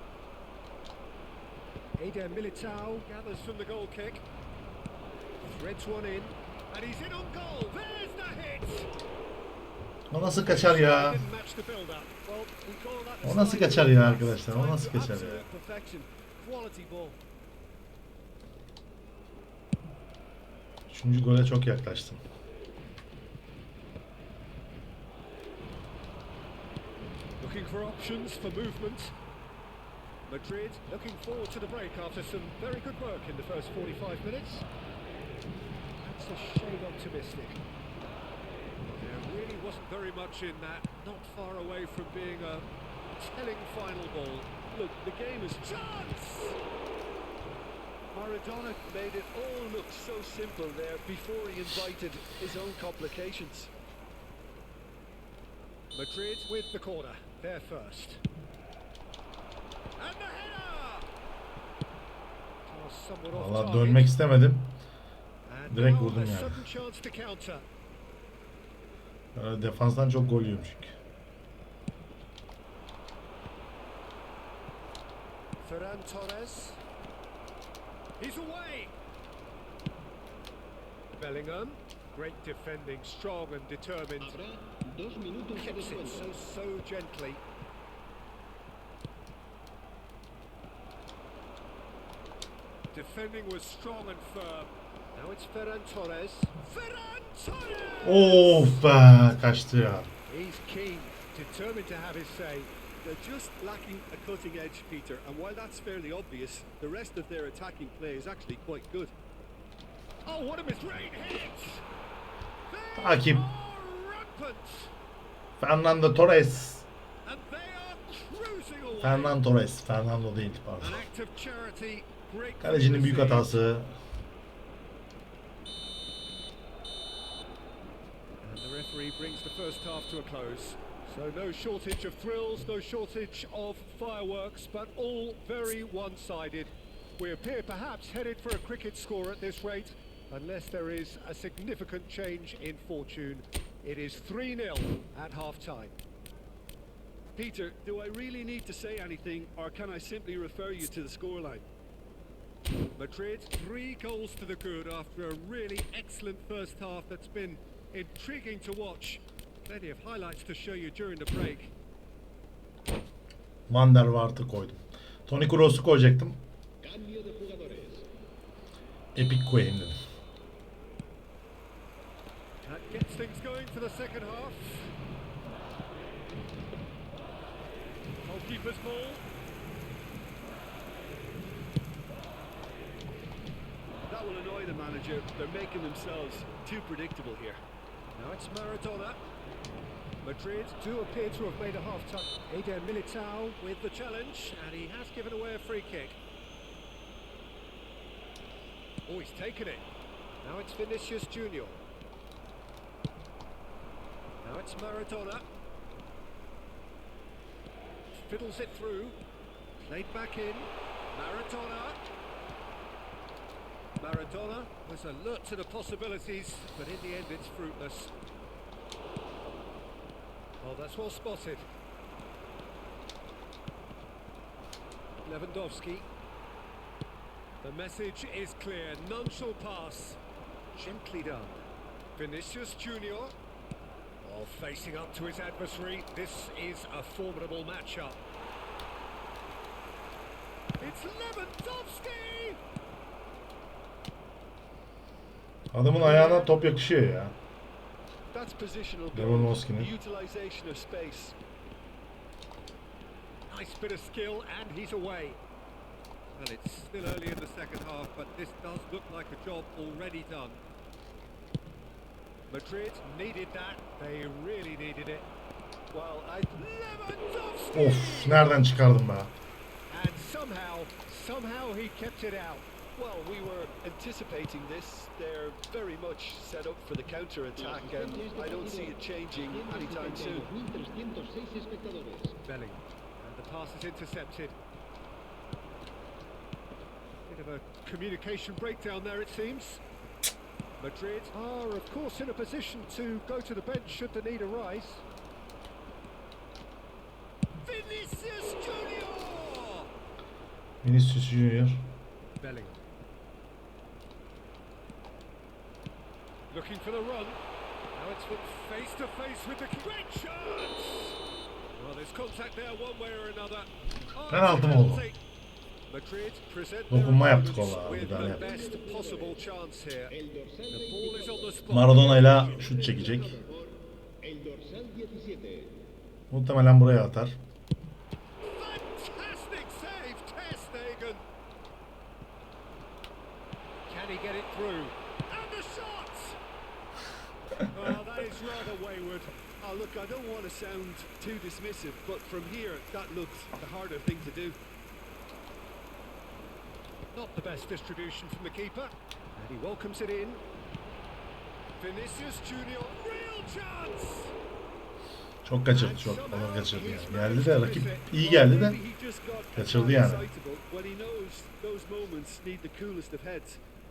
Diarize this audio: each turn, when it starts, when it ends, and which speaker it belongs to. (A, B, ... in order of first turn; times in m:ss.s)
0:02.0-0:04.2 A
0:05.4-0:08.9 A
0:10.1-0:11.2 B
0:10.4-0:14.8 A
0:13.2-0:15.4 B
0:14.5-0:17.1 C
0:20.9-0:22.2 B
0:27.4-0:29.1 A
0:30.3-0:34.7 A
0:36.0-0:37.6 A
0:38.8-0:44.6 A
0:44.7-0:45.9 C
0:45.9-0:46.6 A
0:48.1-0:53.7 C
0:55.9-0:58.2 A
1:00.0-1:01.1 A
1:02.6-1:04.2 A
1:03.3-1:04.7 B
1:05.4-1:07.6 A
1:05.7-1:06.6 B
1:09.4-1:10.9 B
1:15.6-1:16.8 A
1:18.2-1:18.9 A
1:21.2-1:24.4 A
1:24.3-1:26.3 D
1:25.5-1:27.4 A
1:32.9-1:39.0 A
1:38.0-1:40.1 B
1:40.3-1:42.7 A
1:43.0-1:49.1 C
1:50.2-1:51.8 A
1:52.7-1:54.9 A
1:53.0-1:53.5 B
1:55.6-1:56.9 B
1:57.2-1:59.4 A
1:59.0-2:01.0 B
2:00.8-2:03.5 A
2:02.6-2:04.0 B
2:08.4-2:25.9 A
2:27.3-2:31.6 C
2:33.0-2:41.7 A
2:43.7-2:46.4 B
2:46.8-2:48.0 D
2:49.1-2:50.0 B
2:52.6-2:54.9 A
2:58.2-2:59.2 A
3:04.1-3:07.6 C
3:08.1-3:09.2 A
3:10.2-3:16.2 A
3:19.0-3:19.9 A
3:20.4-3:21.8 A
3:24.4-3:25.4 A
3:28.1-3:29.2 A
3:29.8-3:32.0 A
3:34.0-3:38.1 A
3:40.6-3:41.7 A
3:45.2-3:46.1 A
3:47.6-3:50.2 A
3:50.7-3:53.3 A
3:54.2-3:58.2 A
4:00.8-4:02.6 A
4:05.7-4:07.3 B
4:06.0-4:06.5 A
4:08.3-4:11.4 C
4:09.1-4:09.9 B
4:13.5-4:15.4 A
4:16.3-4:20.6 A
4:22.5-4:25.3 A
4:25.9-4:26.7 C
4:26.5-4:28.6 A
4:27.7-4:29.3 B
4:29.9-4:32.7 A
4:33.0-4:40.5 C
4:37.6-4:38.9 D
4:39.5-4:42.4 D
4:42.4-4:44.6 A
4:47.3-4:49.8 A
4:50.8-4:55.0 A
4:57.6-4:59.9 A
5:00.8-5:01.8 B
5:02.4-5:02.8 A
5:06.5-5:07.4 A
5:07.9-5:11.2 A
5:11.7-5:15.2 A
5:14.3-5:15.1 B
5:15.9-5:22.8 A
5:16.9-5:18.5 B
5:18.4-5:19.3 D
5:20.2-5:21.6 D
5:21.7-5:23.4 B
5:22.6-5:23.2 D
5:23.2-5:23.6 C
5:24.2-5:25.8 D
5:26.3-5:27.4 B
5:28.4-5:31.2 A
5:33.8-5:36.4 A
5:37.7-5:39.4 A
5:39.6-5:44.6 C
5:47.1-5:50.4 A
5:51.8-5:54.3 A
5:55.4-5:58.8 B
5:55.7-5:58.1 A
5:58.1-6:03.6 C
5:59.5-6:00.3 B